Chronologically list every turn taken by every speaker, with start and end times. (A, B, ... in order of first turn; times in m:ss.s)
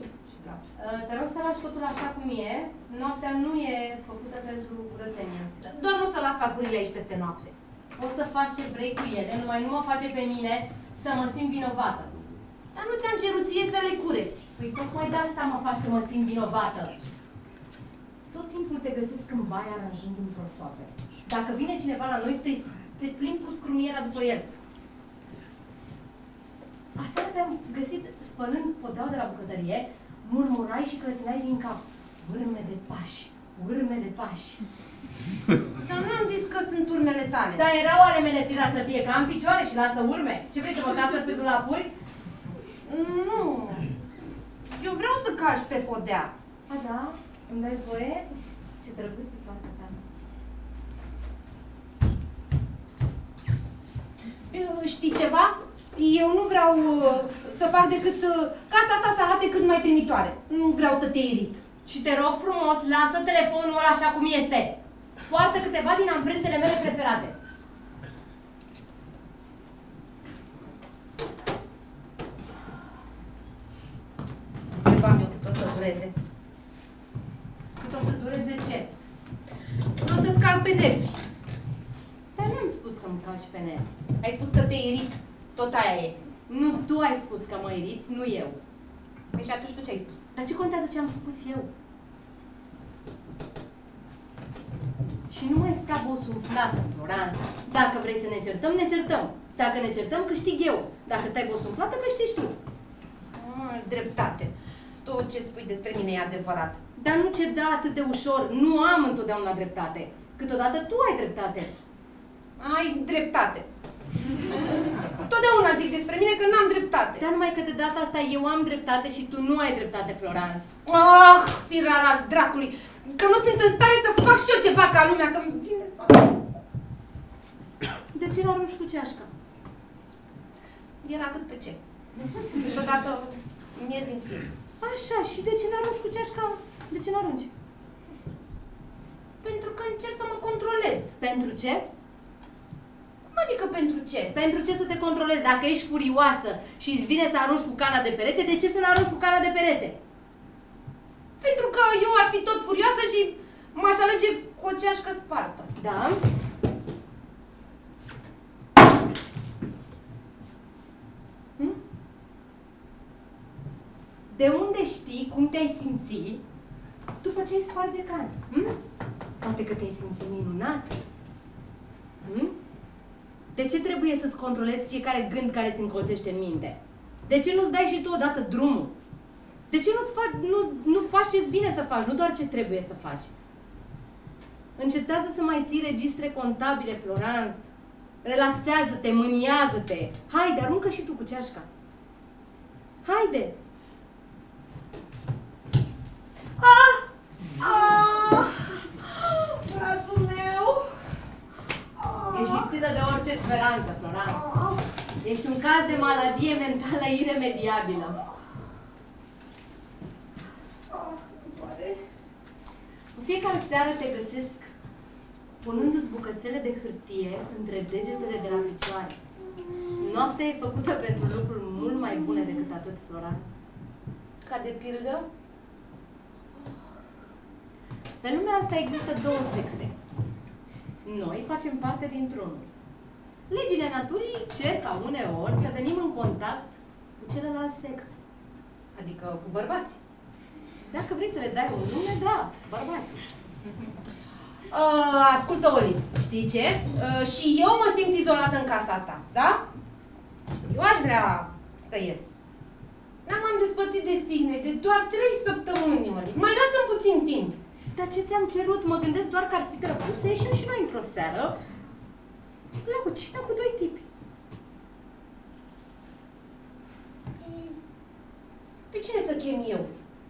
0:00.3-0:00.6 A
0:00.8-0:05.7 B
0:05.6-0:07.5 A
0:08.0-0:12.3 B
0:12.8-0:14.5 A
0:14.6-0:16.9 B
0:18.3-0:24.6 B
0:27.0-0:34.6 B
0:35.8-0:37.6 A
0:37.6-0:41.9 B
0:42.8-0:43.9 A
0:44.7-0:46.3 A
0:46.7-0:50.0 B
0:54.5-1:01.6 A
1:01.9-1:07.4 B
1:14.8-1:16.1 A
1:17.8-1:18.9 B
1:20.0-1:21.2 A
1:22.4-1:23.9 B
1:24.2-1:26.2 A
1:26.5-1:28.6 B
1:29.3-1:30.2 A
1:30.3-1:31.7 B
1:35.3-1:42.6 B
1:43.3-1:44.5 A
1:45.0-1:46.8 A
1:47.0-1:51.7 B
1:52.6-1:53.7 A
1:55.2-1:57.2 A
1:57.2-2:00.7 B
2:00.8-2:06.4 A
2:08.1-2:09.3 B
2:11.0-2:11.8 A
2:12.5-2:14.5 A
2:14.8-2:17.5 B
2:19.4-2:21.1 A
2:21.2-2:21.9 B
2:23.3-2:24.4 A
2:24.3-2:30.0 B
2:31.4-2:35.7 A
2:35.8-2:36.2 B
2:44.3-2:46.4 B
2:47.2-2:48.8 B
2:49.4-2:51.0 B
2:52.2-2:52.6 B
2:53.5-2:58.9 B
2:59.7-3:03.3 B
3:04.8-3:07.7 B
3:08.2-3:11.7 B
3:13.0-3:13.5 B
3:16.6-3:17.0 A
3:17.6-3:21.0 A
3:22.0-3:22.7 A
3:22.3-3:24.5 B
3:24.3-3:24.8 A
3:25.2-3:28.2 B
3:30.9-3:32.0 A
3:33.2-3:34.7 B
3:35.6-3:39.2 B
3:39.4-3:40.1 A
3:40.0-3:43.6 B
3:44.4-3:45.3 A
3:48.2-3:50.0 B
3:51.0-3:52.7 B
3:53.5-3:58.2 B
3:58.9-4:00.0 A
4:00.9-4:03.2 B
4:04.7-4:09.6 A
4:10.7-4:12.3 A
4:13.3-4:17.6 A
4:17.9-4:21.6 B
4:22.8-4:24.0 B
4:27.4-4:27.8 A
4:28.9-4:29.9 A